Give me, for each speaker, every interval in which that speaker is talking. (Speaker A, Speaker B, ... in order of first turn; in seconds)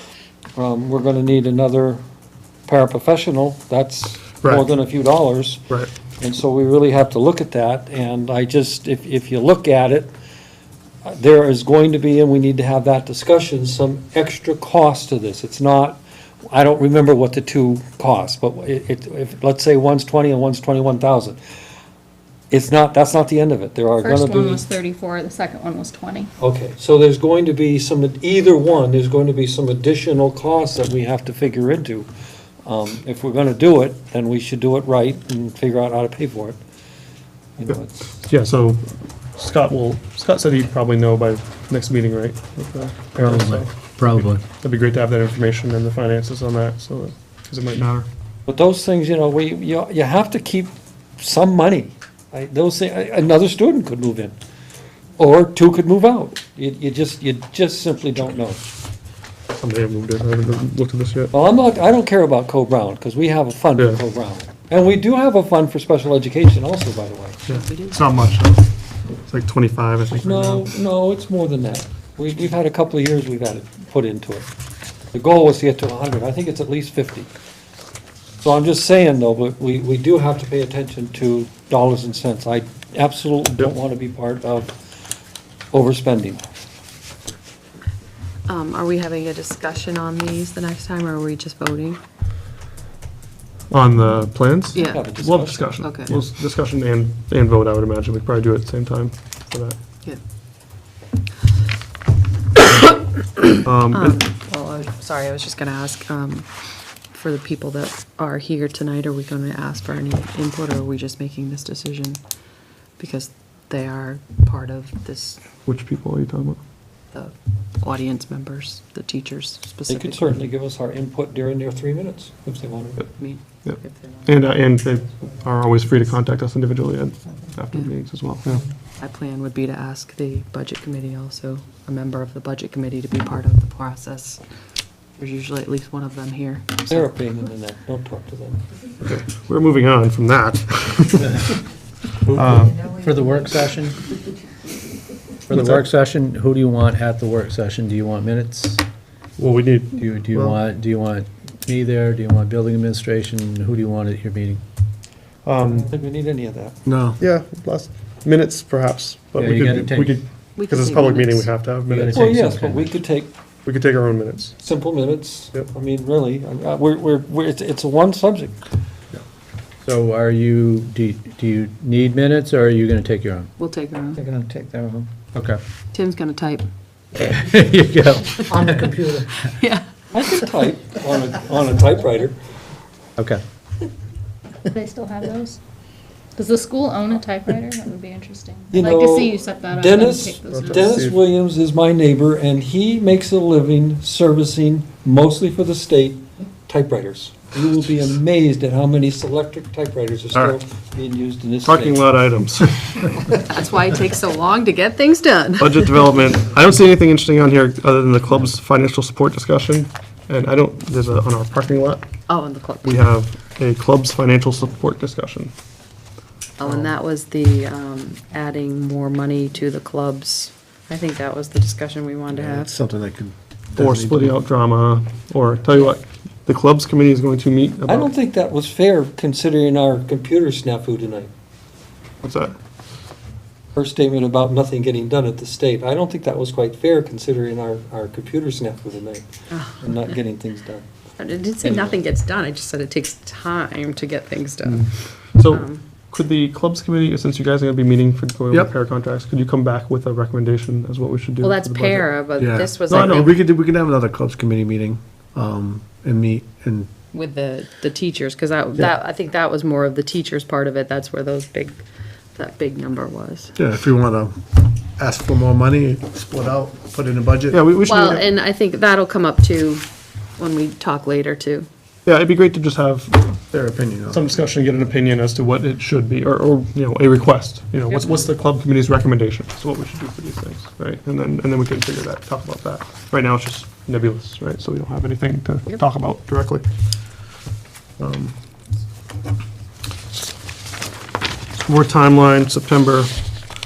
Speaker A: 0.6-2.0, 2.7-10.1, 11.0-21.4, 22.5-24.6, 26.4-32.1, 32.6-36.6, 37.6-38.1, 48.5-54.4, 55.2-58.6, 61.3-67.4, 70.2-74.5, 75.1-77.3, 78.4-84.7, 85.7-86.4, 94.7-95.7, 119.9-123.0, 136.9-138.6, 155.6-156.8, 162.1-163.3, 164.6-168.6, 180.1-182.4, 188.7-202.0, 227.9-231.3, 233.8-240.8, 241.6-242.0
Speaker B: 24.0-26.3, 184.7-185.6, 186.3-191.0
Speaker C: 37.6-48.1, 59.6-61.3, 67.5-68.7, 69.2-70.8, 93.7-99.8, 103.6-104.2, 115.7-116.6, 123.6-128.6, 139.0-141.4, 142.3-142.8, 145.5-145.8, 149.4-150.6, 155.4-155.8, 157.2-162.3, 163.6-164.6, 190.6-191.1, 201.6-203.1, 205.6-212.0, 212.8-215.5, 223.8-228.1, 232.2-232.6, 244.6-252.2, 252.8-253.3, 267.5-268.3, 272.1-273.5, 274.1-286.6, 288.0-288.4, 291.6-293.1
Speaker D: 43.1-44.4, 142.8-144.0, 145.5-148.8, 150.0-154.6, 159.3-160.2, 161.9-163.0, 169.8-173.5, 174.2-175.6, 177.1-179.5
Speaker E: 67.5-68.0, 88.5-92.0, 94.7-95.1, 95.8-96.1, 103.3-106.5, 107.1-112.2, 113.0-115.4, 117.1-120.3, 123.2-124.0, 129.0-134.4, 135.2-137.0, 160.6-161.5, 173.6-174.2, 175.9-176.7, 179.6-179.8, 203.2-205.9, 212.3-213.0, 216.6-222.7, 239.5-239.9, 241.2-245.8, 251.4-253.3, 257.1-261.8, 262.3-263.5, 267.8-271.7, 277.9-278.2
Speaker F: 156.8-157.2, 222.3-224.4, 252.3-256.9, 263.6-264.4, 265.0-267.6, 273.5-274.3